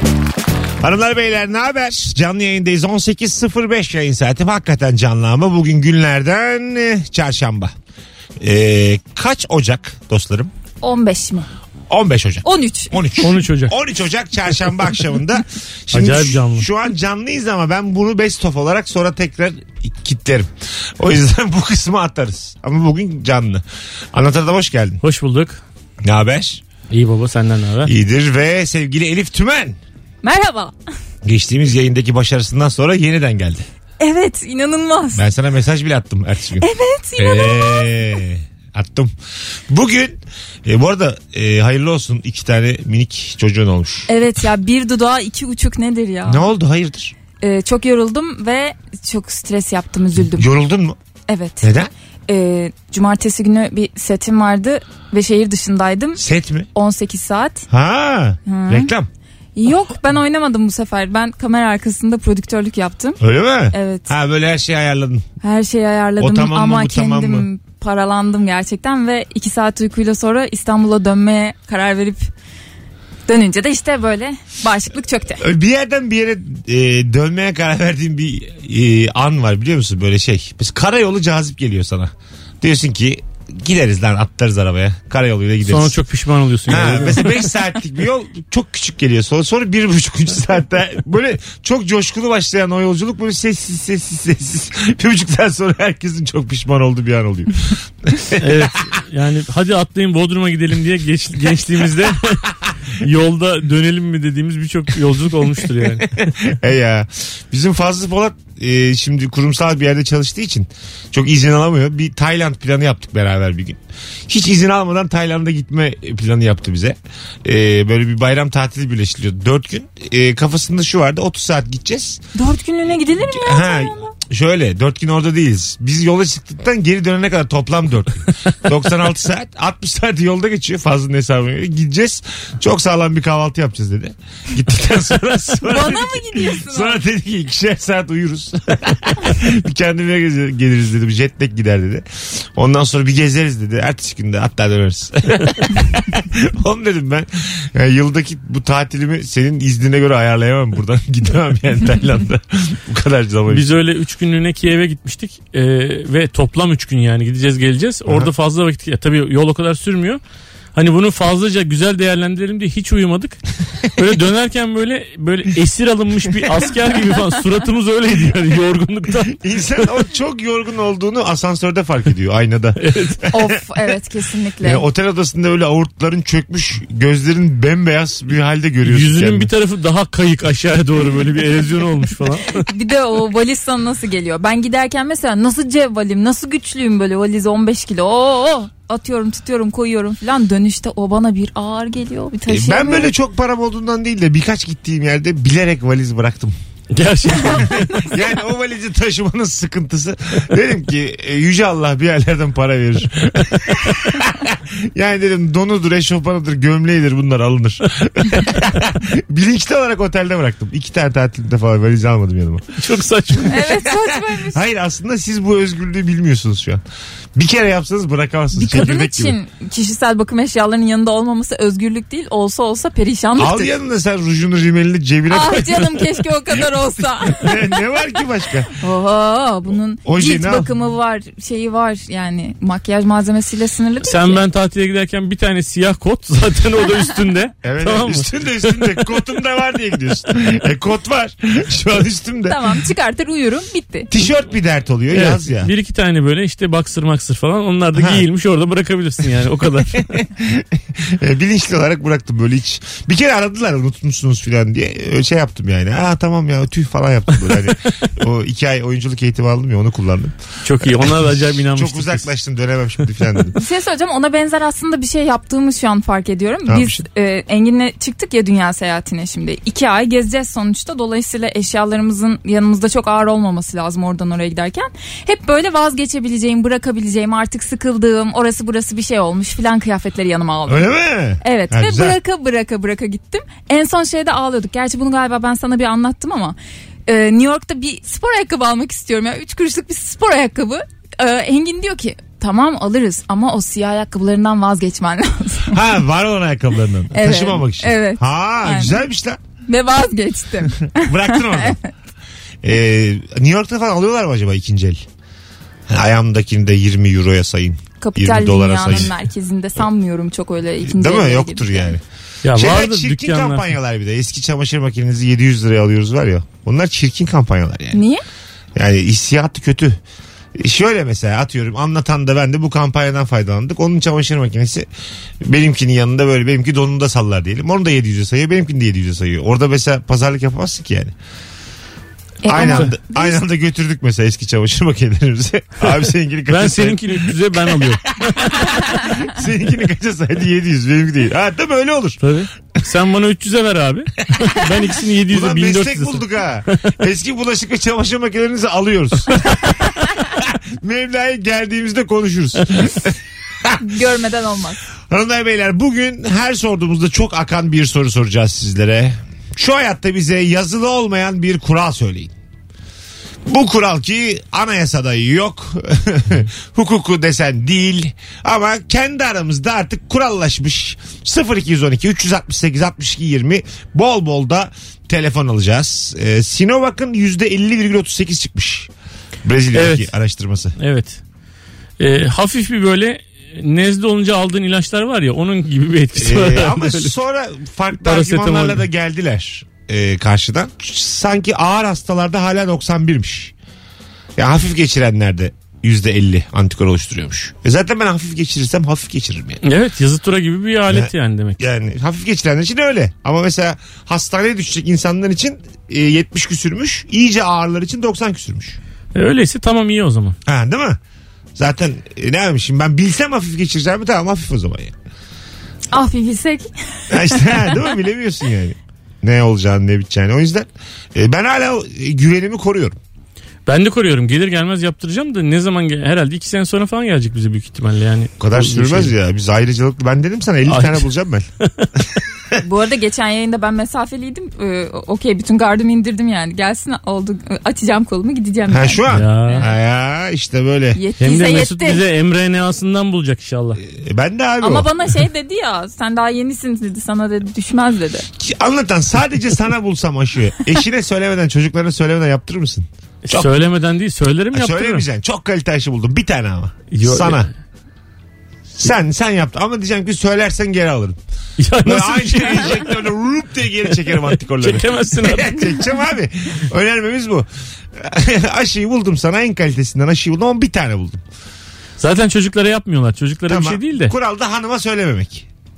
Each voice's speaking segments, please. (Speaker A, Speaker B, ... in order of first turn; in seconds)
Speaker A: 0.8-7.7, 8.4-10.5, 11.9-25.0, 26.0-26.6, 27.9-29.8, 31.2-33.6, 35.1-39.1, 39.7-44.1, 46.3-47.1, 50.1-51.0, 51.6-51.9, 56.2-56.7, 57.7-59.1, 63.2-65.2, 66.2-67.5, 75.4-86.0, 86.7-98.7, 106.1-122.2, 123.2-153.7, 169.3-173.6, 174.6-179.5, 192.5-196.5, 197.4-212.8, 213.4-216.8, 217.3-219.4, 223.4-228.7, 230.0-230.7, 237.6-242.6, 244.1-245.7, 247.9-248.2, 250.1-263.6, 266.7-267.0, 280.7-282.2, 295.7-299.4, 300.9-301.8, 302.6-305.1, 305.9-309.1, 310.8-318.0, 318.8-320.0, 320.6-324.9, 325.4-331.1, 332.4-342.2, 345.2-353.8, 355.1-362.3, 363.4-378.9, 379.4-380.7, 386.1-393.5, 394.4-399.6, 400.9-408.8, 410.4-411.0, 411.6-414.9, 417.1-423.0, 428.4-431.5, 438.7-441.0, 443.8-444.9, 448.4-453.5, 454.5-457.5, 458.8-461.2, 461.8-471.2, 473.5-475.5
Speaker B: 10.8-11.5, 12.4-12.9, 30.2-30.7, 34.0-35.2, 36.6-37.9, 44.1-46.5, 47.4-50.5, 51.3-51.7, 52.3-56.2, 56.7-57.6, 58.5-58.9, 59.5-63.2, 63.7-64.1, 65.4-72.2, 73.3-75.4, 122.3-124.1, 135.7-137.0, 173.3-174.8, 182.7-193.1, 213.5-214.6, 218.5-223.7, 225.3-227.8, 228.7-234.4, 242.5-244.1, 263.5-280.9, 281.4-295.8, 297.1-299.0, 299.6-301.9, 308.0-311.9, 317.9-318.2, 332.4-333.4, 353.8-354.8, 415.9-417.9, 432.6-439.6, 440.9-442.0, 444.6-448.3
Speaker C: 13.2-13.7, 15.9-16.7, 25.0-25.6, 26.9-27.9, 85.6-87.5, 98.4-106.3, 153.5-160.2, 160.7-169.4, 172.8-173.1, 178.8-182.6, 196.9-197.9, 212.8-213.6, 234.0-239.1, 245.1-250.1, 260.6-262.2, 312.4-313.7, 336.5-338.4, 342.2-346.2, 379.7-380.1, 380.8-381.2, 382.0-387.1, 388.0-388.8, 399.6-401.6, 409.1-410.4, 423.6-429.1, 430.6-431.1, 431.6-431.9, 439.1-439.7, 441.2-443.8, 453.2-455.1, 456.9-457.5, 461.6-462.9, 464.1-465.8, 472.0-474.1